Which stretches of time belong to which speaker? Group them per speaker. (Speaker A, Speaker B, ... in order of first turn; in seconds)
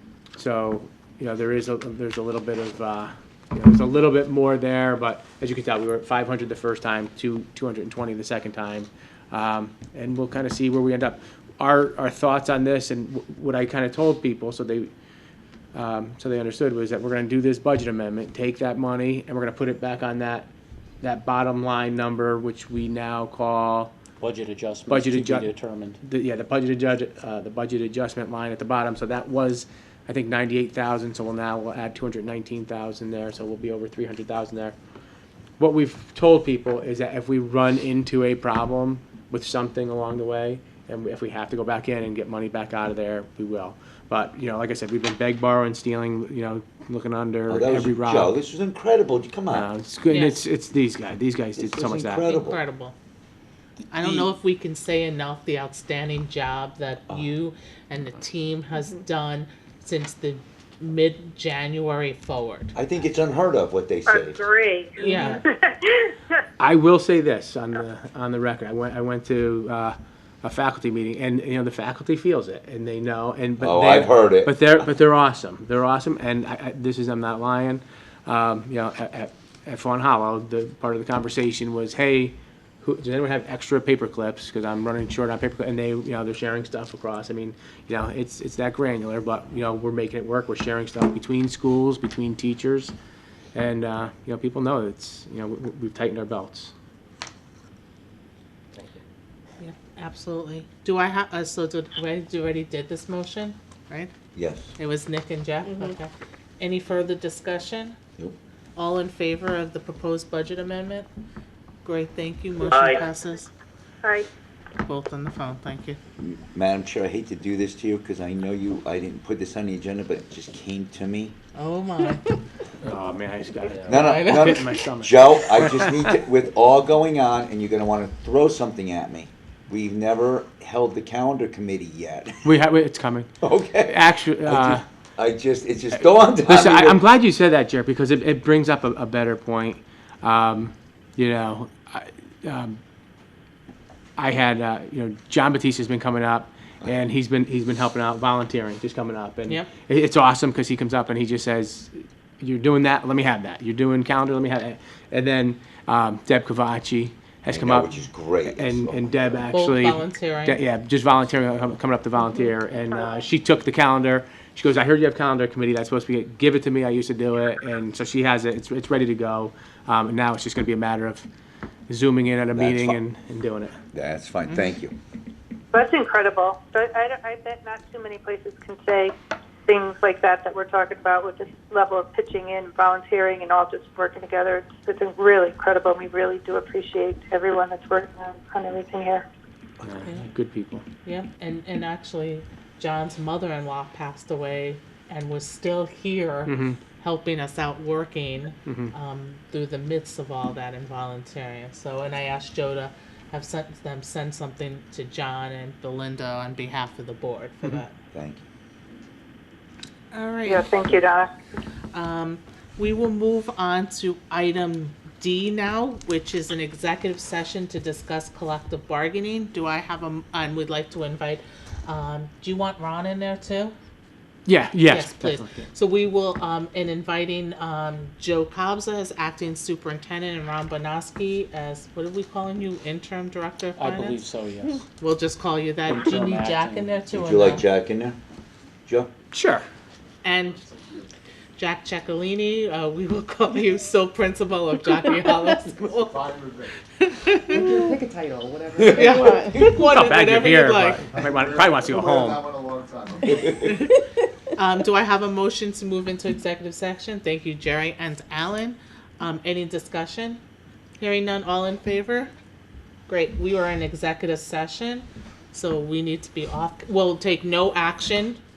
Speaker A: 0.4-14.9, 15.7-20.5, 21.0-23.9, 24.9-34.8, 35.6-48.4, 49.5-52.3, 66.6-92.9, 93.5-96.7, 122.8-126.1, 132.4-134.8, 136.4-142.8, 144.2-171.3, 171.9-173.8, 189.8-190.8, 196.5-196.8, 198.7-198.9, 224.5-225.7, 239.3-239.7, 249.6-252.5
Speaker B: 24.2-26.0, 233.8-234.8, 235.9-236.9
Speaker C: 47.5-49.7, 51.6-52.6, 62.8-64.4, 73.6-74.6, 104.3-104.7, 116.2-121.3, 123.9-132.5, 133.4-137.0, 157.5-159.5, 172.6-173.0, 173.9-174.9, 208.1-208.4, 237.1-238.2, 238.9-239.1, 248.8-249.8
Speaker D: 50.1-50.4, 52.2-53.0, 53.9-62.7, 65.0-65.4, 99.6-104.1, 104.8-108.0, 108.8-111.1, 111.8-113.5, 114.8-116.0, 121.5-122.4, 159.5-160.6, 191.0-207.9, 210.1-210.7, 211.9-223.8, 224.8-234.2, 235.0-237.6, 240.2-240.7, 241.6-246.4, 247.0-247.8, 248.8-251.1, 253.3-254.0, 254.6-260.4, 261.0-262.3, 263.1-268.4
Speaker E: 64.1-66.2, 175.7-179.1, 179.7-189.2, 210.5-211.3
Speaker F: 240.7-241.0, 246.1-246.7, 247.5-249.5, 251.2-253.6